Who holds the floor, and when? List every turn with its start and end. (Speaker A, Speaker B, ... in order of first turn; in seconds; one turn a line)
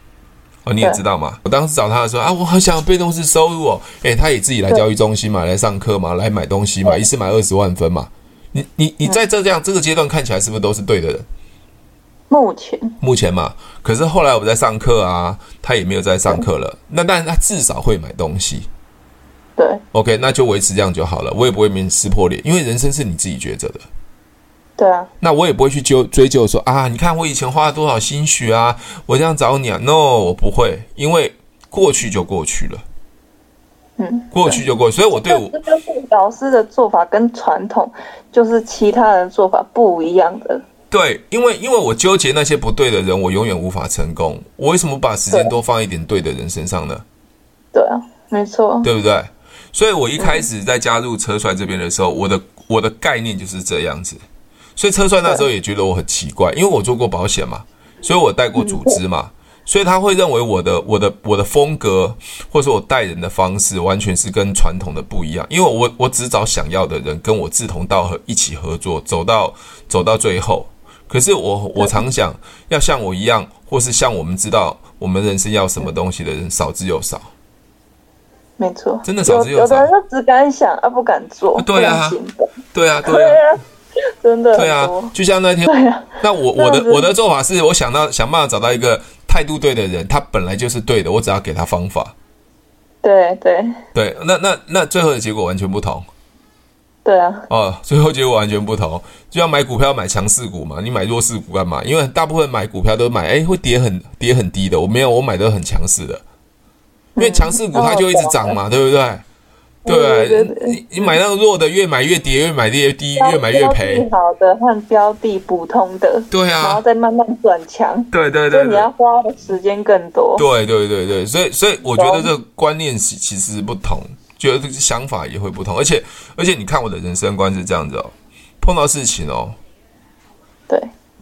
Speaker A: 0.7-11.2
Speaker B: 12.3-12.9
Speaker A: 13.0-18.7
Speaker B: 19.6-19.8
Speaker A: 19.9-23.8
Speaker B: 24.8-25.1
Speaker A: 25.2-32.8
Speaker B: 34.0-34.6
Speaker A: 34.3-35.5
Speaker B: 35.1-40.6
Speaker A: 40.9-47.0
Speaker B: 47.7-48.9
Speaker A: 48.8-54.2
Speaker B: 50.2-50.4
Speaker A: 54.8-77.3
Speaker B: 58.6-59.0
Speaker B: 78.6-82.5
Speaker A: 79.0-79.9
Speaker A: 81.6-82.2
Speaker A: 82.7-83.4
Speaker B: 83.0-85.1
Speaker A: 84.5-92.1
Speaker B: 85.7-87.1
Speaker B: 93.0-93.8
Speaker A: 93.9-96.0
Speaker B: 97.0-97.5
Speaker A: 97.5-106.2
Speaker B: 107.2-108.6
Speaker A: 107.2-109.2
Speaker B: 109.8-111.2
Speaker A: 109.8-114.0
Speaker B: 113.2-120.5
Speaker A: 116.3-116.8
Speaker A: 118.1-118.9
Speaker A: 120.4-129.6
Speaker B: 122.0-122.3